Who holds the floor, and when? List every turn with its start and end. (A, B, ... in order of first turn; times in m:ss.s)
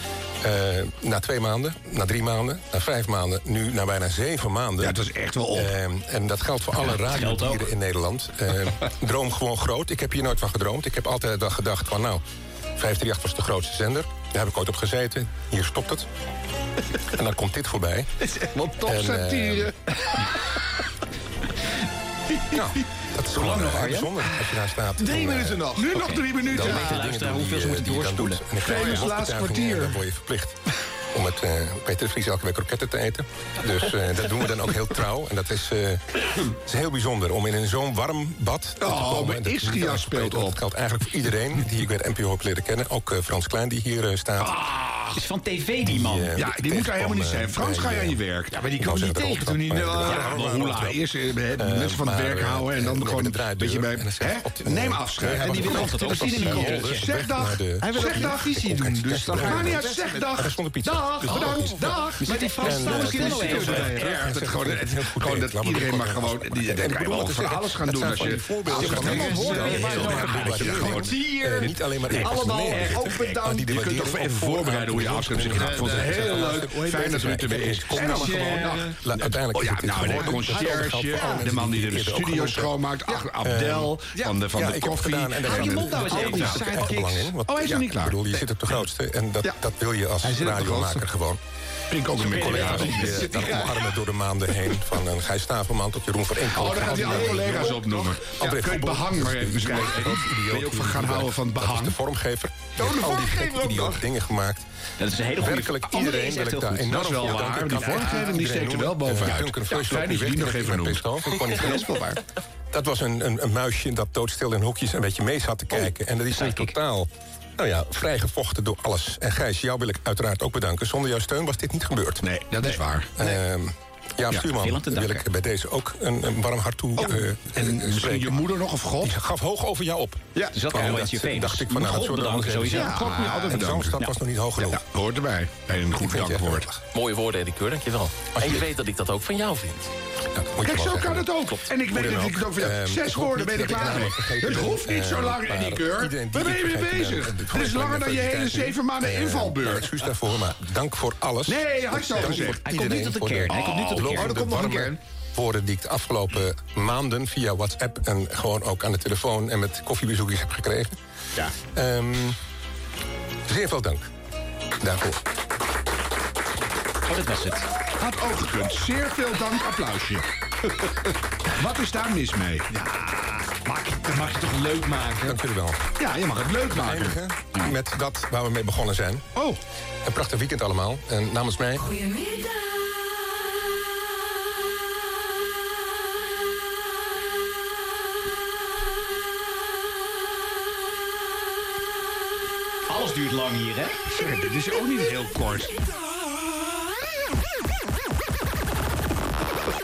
0:00.4-0:05.0 A
0:04.8-0:05.7 B
0:05.5-0:12.2 A
0:06.8-0:07.7 C
0:12.8-0:16.1 A
0:17.1-0:18.1 A
0:18.5-0:19.3 D
0:18.8-0:19.7 A
0:19.0-0:19.6 B
0:22.5-0:25.7 A
0:23.6-0:23.9 C
0:25.1-0:25.8 D
0:25.7-0:26.9 B
0:25.9-0:28.4 C
0:26.5-0:30.6 A
0:26.6-0:27.0 D
0:28.6-0:30.0 B
0:31.1-0:44.7 A
0:38.8-0:40.6 B
0:44.4-0:45.2 B
0:45.2-0:46.3 C
0:45.9-0:48.2 A
0:46.4-0:48.6 B
0:48.5-0:50.4 D
0:48.8-0:51.0 A
0:50.1-0:58.4 B
0:51.6-1:22.8 A
0:55.4-0:57.1 C
0:57.8-1:04.2 D
0:59.3-1:02.2 B
1:02.5-1:03.9 C
1:02.9-1:11.2 B
1:08.2-1:13.6 D
1:08.9-1:10.8 C
1:12.1-1:28.3 B
1:15.4-1:19.0 D
1:20.1-1:21.5 D
1:23.4-1:24.0 A
1:24.5-1:31.4 A
1:25.4-1:26.9 C
1:26.1-1:27.0 D
1:30.2-1:31.0 D
1:31.9-1:33.7 B
1:32.2-1:44.6 A
1:32.3-1:33.8 D
1:36.5-1:42.0 B
1:36.8-1:38.1 D
1:42.8-1:44.0 D
1:45.0-1:46.9 C
1:45.4-1:52.0 A
1:46.9-1:51.1 B
1:47.8-1:48.4 D
1:51.5-1:52.2 D
1:52.7-2:02.6 A
1:56.3-1:56.7 C
2:02.2-2:03.2 B
2:03.2-2:08.5 A
2:04.6-2:05.2 C
2:07.5-2:09.2 B
2:09.0-2:14.8 A
2:10.5-2:13.5 C
2:12.7-2:14.0 B
2:12.9-2:13.5 D
2:14.7-2:16.7 B
2:16.0-2:16.8 A
2:16.9-2:19.9 E
2:20.3-2:21.3 A
2:20.6-2:30.0 B
2:21.9-2:40.9 A
2:31.5-2:32.6 B
2:32.6-2:34.4 C
2:34.0-2:35.0 D
2:41.7-2:42.4 A
2:43.5-2:44.1 A
2:44.8-2:45.2 A
2:47.1-2:47.7 C
2:48.0-2:50.2 B
2:51.6-2:52.7 B
2:52.7-2:55.4 D
2:55.2-2:55.9 A
2:56.0-2:57.2 B
2:56.7-2:59.3 A
3:00.0-3:01.9 A
3:12.9-3:14.0 C
3:14.1-3:15.7 B